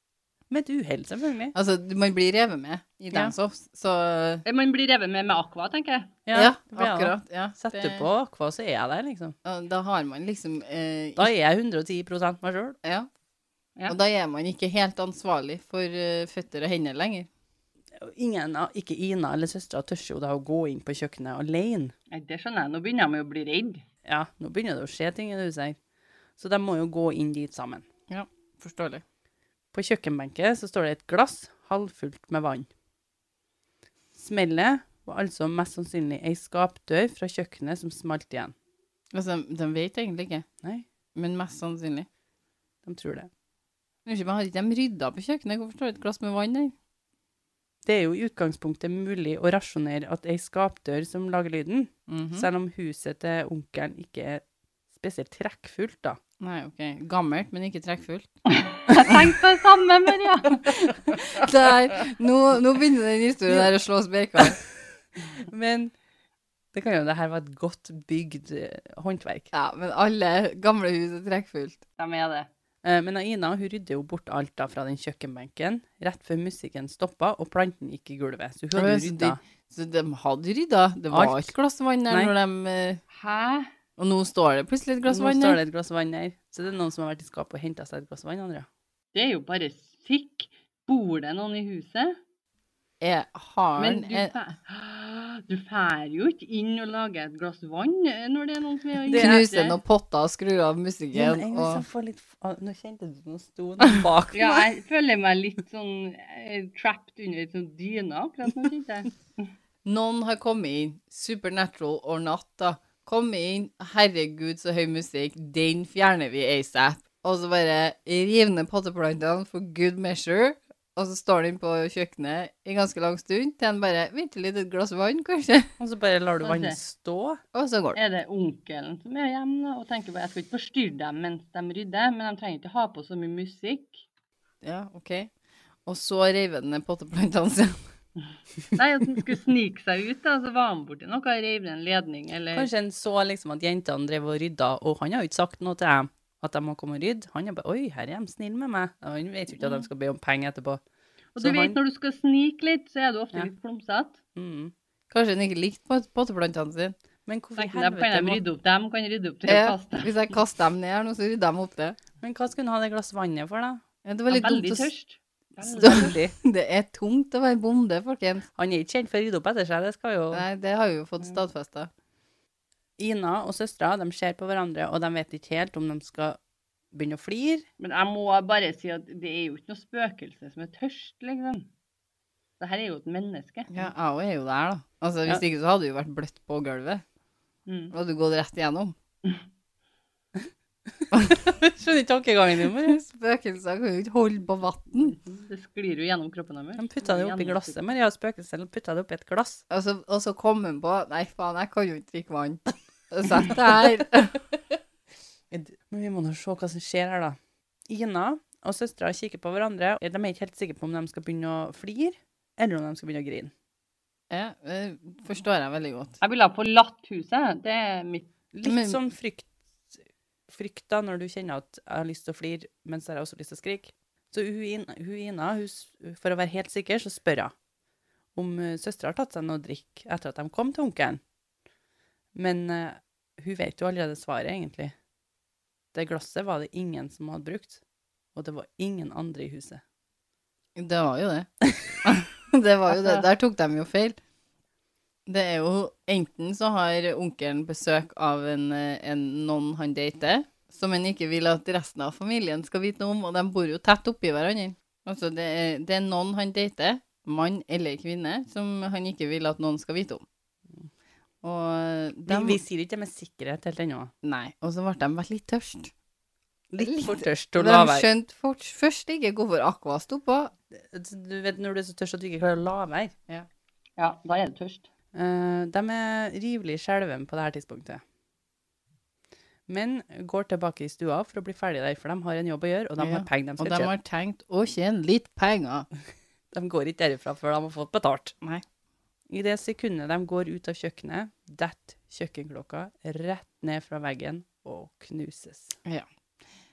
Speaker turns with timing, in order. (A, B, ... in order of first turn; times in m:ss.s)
0:00.5-0:01.5 A
0:01.5-0:04.4 B
0:04.4-0:06.2 C
0:06.3-0:09.3 A
0:06.3-0:08.1 B
0:09.4-0:11.3 B
0:11.2-0:12.8 A
0:13.9-0:17.3 B
0:18.0-0:21.9 A
0:22.1-0:23.8 C
0:24.0-0:25.8 A
0:26.4-0:27.9 A
0:28.1-0:29.0 B
0:29.7-0:32.7 A
0:34.1-0:38.5 A
0:39.1-0:40.4 B
0:41.1-0:42.1 B
0:42.8-0:43.3 A
0:44.0-0:46.7 B
0:47.8-0:56.2 A
0:52.1-0:52.5 B
0:56.4-0:58.3 B
0:58.5-1:00.8 C
1:00.7-1:04.6 B
1:05.3-1:05.9 A
1:06.7-1:09.5 A
1:09.5-1:11.8 B
1:12.0-1:12.5 C
1:12.8-1:19.4 A
1:18.7-1:23.0 B
1:21.1-1:21.5 A
1:23.1-1:23.7 C
1:24.0-1:25.6 B
1:25.1-1:28.6 A
1:29.1-1:32.2 C
1:33.0-1:34.3 B
1:33.8-1:39.8 C
1:39.1-1:39.4 A
1:39.1-1:41.8 B
1:41.1-1:44.7 A
1:44.3-1:49.1 C
1:49.8-2:05.7 B
2:05.8-2:07.4 A
2:06.4-2:06.8 C
2:07.5-2:08.0 B
2:07.9-2:14.0 C
2:14.6-2:15.3 B
2:15.8-2:17.8 B
2:18.7-2:22.7 C
2:22.5-2:30.8 A
2:31.3-2:34.2 C
2:31.4-2:31.8 A
2:34.3-2:34.7 A
2:35.1-2:37.0 B
2:37.2-2:38.4 A
2:37.6-2:40.2 C
2:39.5-2:42.0 B
2:42.2-2:43.8 A
2:44.0-2:44.9 B
2:44.3-2:46.2 C
2:45.7-2:48.4 B
2:45.8-2:46.3 A
2:48.6-2:50.4 A
2:50.3-2:51.9 B
2:53.0-2:56.4 A
2:56.9-2:57.6 A
2:57.8-3:01.7 C
3:02.6-3:03.7 C
3:03.7-3:07.0 B
3:07.6-3:07.9 C
3:07.9-3:08.9 B
3:11.0-3:13.0 A
3:11.1-3:11.4 B
3:12.7-3:15.2 B
3:15.1-3:17.8 C
3:16.8-3:19.6 A
3:19.7-3:24.4 B
3:25.5-3:27.4 A
3:27.9-3:33.5 A
3:34.3-3:36.2 B
3:36.2-3:38.3 C
3:38.5-3:40.0 A
3:38.6-3:39.0 B
3:40.5-3:47.5 A
3:48.3-3:51.2 A
3:52.3-3:54.9 A
3:55.9-3:57.8 A
3:58.3-3:59.8 A
4:00.8-4:01.5 B
4:02.0-4:04.2 B
4:02.9-4:03.2 C
4:05.2-4:20.2 B
4:21.4-4:22.6 B
4:22.3-4:24.1 A
4:24.2-4:25.9 B
4:26.7-4:28.1 A
4:26.8-4:30.5 B
4:30.7-4:33.1 A
4:34.0-4:34.8 C
4:35.1-4:38.0 A
4:39.7-4:43.9 A
4:43.0-4:45.9 B
4:46.5-4:48.3 A
4:49.3-4:55.8 A